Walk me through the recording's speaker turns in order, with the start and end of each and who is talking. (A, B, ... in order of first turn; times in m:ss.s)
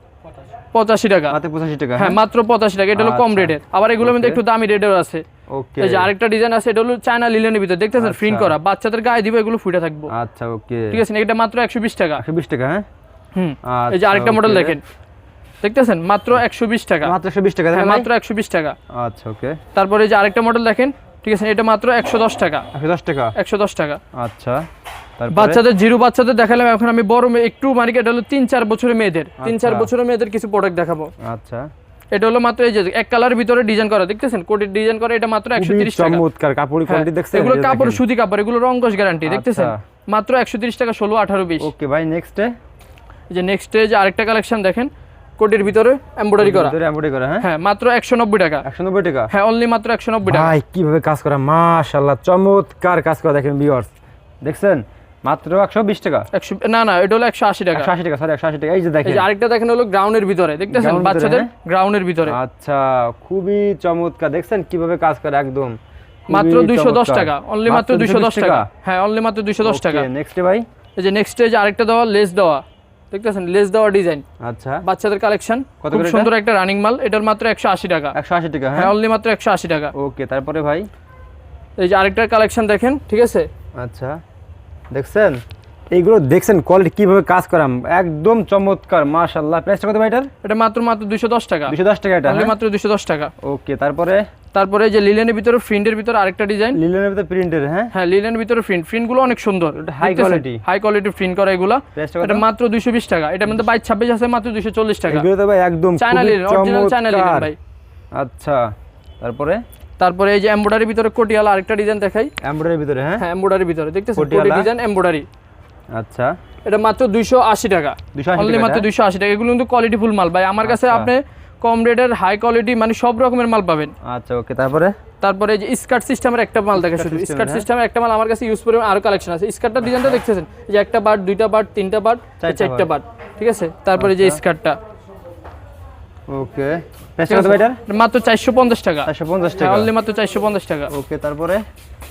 0:00.7-0:01.4 A
0:01.3-0:02.2 B
0:02.0-0:05.2 A
0:02.9-0:04.4 B
0:05.5-0:06.1 B
0:05.8-0:10.1 A
0:08.0-0:08.6 B
0:10.1-0:11.0 B
0:10.9-0:12.2 A
0:12.2-0:12.8 B
0:13.3-0:14.8 A
0:13.6-0:14.8 B
0:15.6-0:17.1 A
0:17.0-0:18.1 B
0:17.7-0:18.8 A
0:18.9-0:19.6 B
0:19.8-0:22.6 A
0:22.7-0:23.3 B
0:23.4-0:24.0 A
0:24.1-0:24.6 B
0:25.2-0:25.6 B
0:25.3-0:31.1 A
0:29.4-0:29.9 B
0:31.2-0:31.7 B
0:32.1-0:36.2 A
0:35.5-0:38.0 B
0:36.9-0:41.7 A
0:39.2-0:39.8 B
0:41.6-0:42.5 B
0:43.3-0:46.7 A
0:46.4-0:47.5 B
0:47.4-0:48.6 A
0:48.6-0:49.3 B
0:49.3-0:50.5 A
0:50.2-0:53.9 B
0:54.4-0:56.3 B
0:56.3-0:57.9 A
0:57.7-0:59.3 B
0:59.0-1:02.4 A
1:00.7-1:01.5 B
1:02.2-1:08.7 B
1:06.3-1:10.1 A
1:09.6-1:10.6 B
1:11.0-1:14.2 A
1:14.4-1:14.8 B
1:14.8-1:18.1 A
1:15.8-1:16.3 B
1:18.2-1:18.9 B
1:18.8-1:19.9 A
1:20.0-1:20.9 B
1:21.8-1:23.5 A
1:23.8-1:24.2 B
1:24.9-1:25.4 B
1:25.9-1:30.3 B
1:30.4-1:33.3 A
1:31.7-1:32.5 B
1:33.4-1:34.2 B
1:34.5-1:36.8 A
1:36.7-1:37.9 B
1:37.9-1:45.3 A
1:39.7-1:40.6 B
1:42.0-1:42.4 B
1:45.1-1:47.5 B
1:46.0-1:47.6 A
1:48.1-1:49.6 B
1:50.0-1:52.3 A
1:52.4-1:53.2 B
1:53.2-1:55.2 A
1:54.2-1:54.7 B
1:55.9-1:56.3 B
1:56.7-2:03.9 A
1:58.1-1:58.9 B
2:00.6-2:01.1 B
2:04.0-2:04.9 B
2:05.2-2:14.8 A
2:06.7-2:07.7 B
2:09.8-2:10.2 B
2:12.4-2:12.9 B
2:14.0-2:14.4 B
2:16.3-2:17.8 B
2:17.3-2:20.9 A
2:19.0-2:19.9 B
2:20.9-2:21.6 B